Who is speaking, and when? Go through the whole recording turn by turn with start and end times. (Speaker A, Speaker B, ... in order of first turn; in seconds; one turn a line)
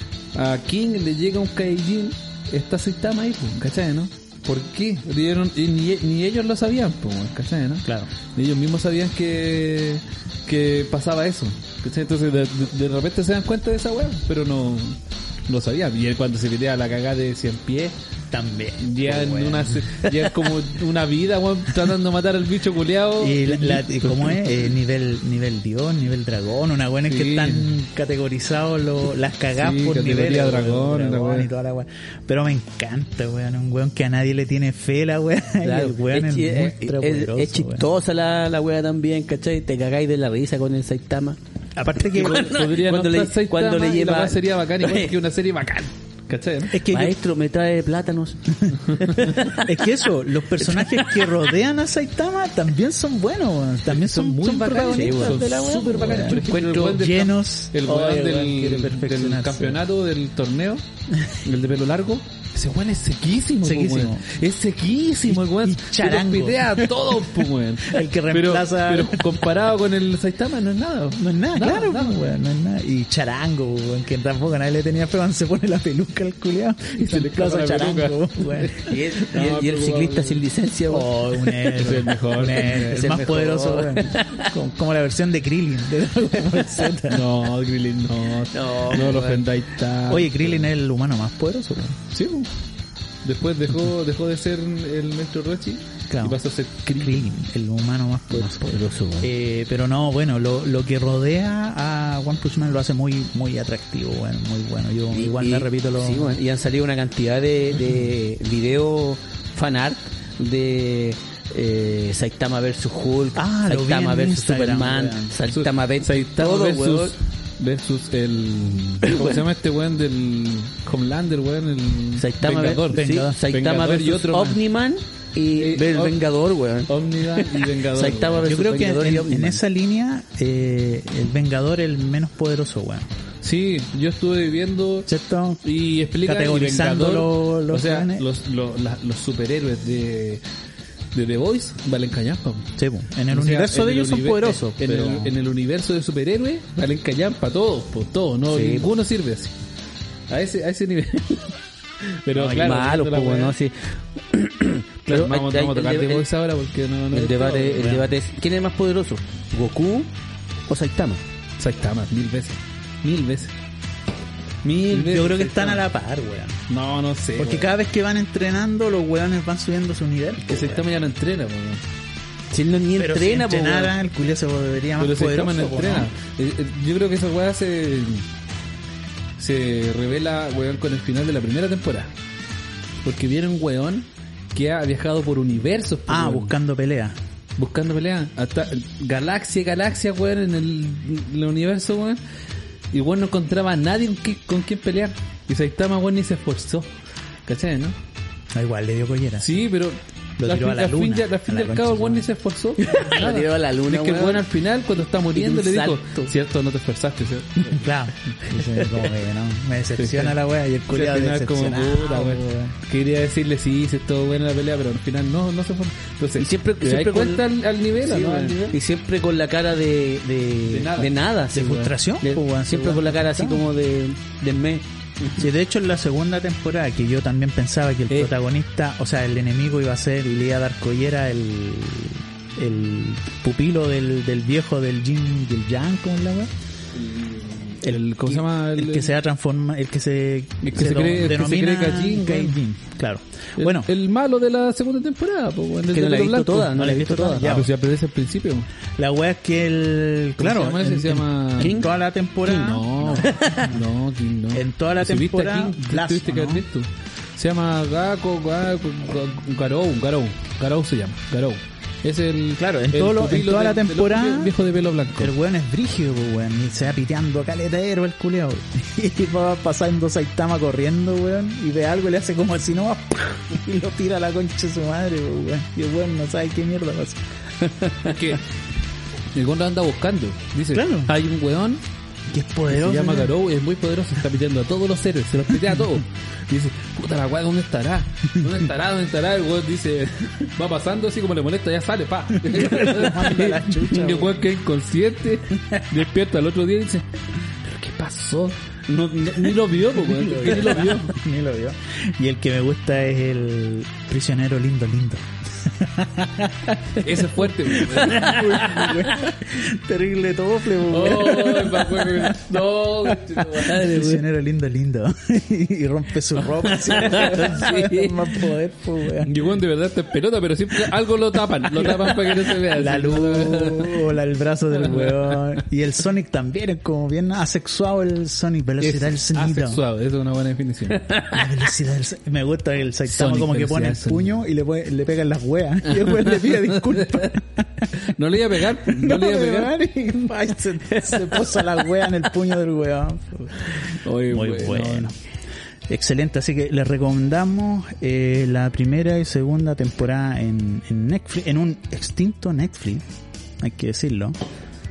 Speaker A: 0.3-15.0
Speaker B: 7.8-8.1
Speaker A: 15.5-17.9
Speaker B: 18.3-19.9
Speaker A: 18.8-24.6
Speaker B: 23.2-37.9
Speaker A: 27.0-27.7
Speaker A: 29.6-31.5
Speaker C: 35.6-41.4
Speaker B: 41.8-42.5
Speaker C: 42.1-45.1
Speaker A: 42.1-46.8
Speaker B: 46.7-47.1
Speaker C: 46.9-49.6
Speaker B: 48.7-59.8
Speaker A: 53.9-60.8
Speaker C: 54.9-55.4
Speaker C: 56.4-56.9
Speaker A: 61.4-72.2
Speaker B: 63.6-64.2
Speaker B: 65.3-69.2
Speaker B: 71.2-78.9
Speaker A: 77.0-80.4
Speaker C: 78.8-81.1
Speaker B: 80.9-87.3
Speaker A: 81.6-83.2
Speaker C: 82.6-84.5
Speaker A: 87.1-90.7
Speaker C: 88.5-89.4
Speaker B: 90.1-92.0
Speaker A: 92.1-92.5
Speaker A: 93.2-97.3
Speaker B: 96.1-96.4
Speaker B: 96.9-106.4
Speaker C: 98.3-99.3
Speaker C: 105.1-117.1
Speaker B: 113.3-115.3
Speaker A: 115.5-124.6
Speaker C: 119.0-119.4
Speaker C: 122.2-129.6
Speaker B: 122.9-123.4
Speaker A: 125.5-126.2
Speaker A: 126.9-128.5
Speaker B: 128.4-133.1
Speaker A: 133.4-135.1
Speaker B: 135.1-135.6
Speaker A: 135.6-140.4
Speaker B: 136.2-138.2
Speaker A: 141.1-142.7
Speaker B: 142.8-145.3
Speaker A: 143.3-149.5
Speaker C: 148.5-148.9
Speaker A: 150.3-153.5
Speaker B: 152.3-152.6
Speaker C: 152.4-156.2
Speaker A: 155.1-158.0
Speaker C: 157.1-160.1
Speaker B: 157.8-158.0
Speaker C: 160.7-161.2
Speaker A: 161.6-163.5
Speaker A: 164.6-165.8
Speaker B: 164.9-166.6
Speaker A: 166.7-167.8
Speaker B: 167.4-170.8
Speaker A: 170.4-171.8
Speaker C: 172.5-173.9
Speaker B: 173.0-176.1
Speaker A: 175.0-178.2
Speaker A: 179.4-182.1
Speaker A: 183.0-186.5
Speaker B: 186.1-187.2
Speaker A: 187.6-192.2
Speaker A: 192.9-196.9
Speaker A: 197.5-197.9
Speaker B: 198.5-199.5
Speaker A: 199.4-207.8
Speaker B: 200.4-202.2
Speaker C: 202.8-204.4
Speaker C: 205.3-206.3
Speaker B: 207.6-212.7
Speaker A: 210.0-210.3
Speaker A: 210.9-218.7
Speaker C: 216.4-217.4
Speaker C: 218.0-225.4
Speaker A: 220.7-221.1
Speaker B: 221.5-223.7
Speaker B: 225.4-236.5
Speaker A: 236.9-239.1
Speaker B: 237.8-243.9
Speaker A: 240.6-242.6
Speaker A: 243.6-246.8
Speaker C: 245.9-247.5
Speaker B: 246.7-247.7
Speaker A: 247.4-248.7
Speaker B: 249.0-253.8
Speaker A: 250.4-251.9
Speaker C: 251.6-251.9
Speaker A: 252.5-265.3
Speaker C: 253.2-253.6
Speaker B: 254.5-256.6
Speaker B: 262.6-264.5
Speaker B: 265.2-277.9
Speaker A: 278.0-278.4
Speaker A: 279.3-281.8
Speaker B: 280.7-281.1
Speaker B: 282.3-283.3
Speaker A: 282.7-297.1
Speaker B: 292.4-294.4
Speaker A: 297.6-301.1
Speaker B: 300.0-319.3
Speaker A: 307.0-309.3
Speaker A: 310.9-314.2
Speaker A: 316.6-318.5
Speaker A: 319.1-324.1
Speaker B: 321.8-329.8
Speaker A: 324.7-325.6
Speaker A: 328.8-331.1
Speaker C: 330.9-331.4
Speaker B: 331.3-337.9
Speaker A: 333.1-334.3
Speaker A: 335.9-337.4
Speaker A: 337.9-339.8
Speaker B: 338.8-345.1
Speaker A: 343.8-345.1
Speaker B: 345.9-353.0
Speaker B: 353.6-354.4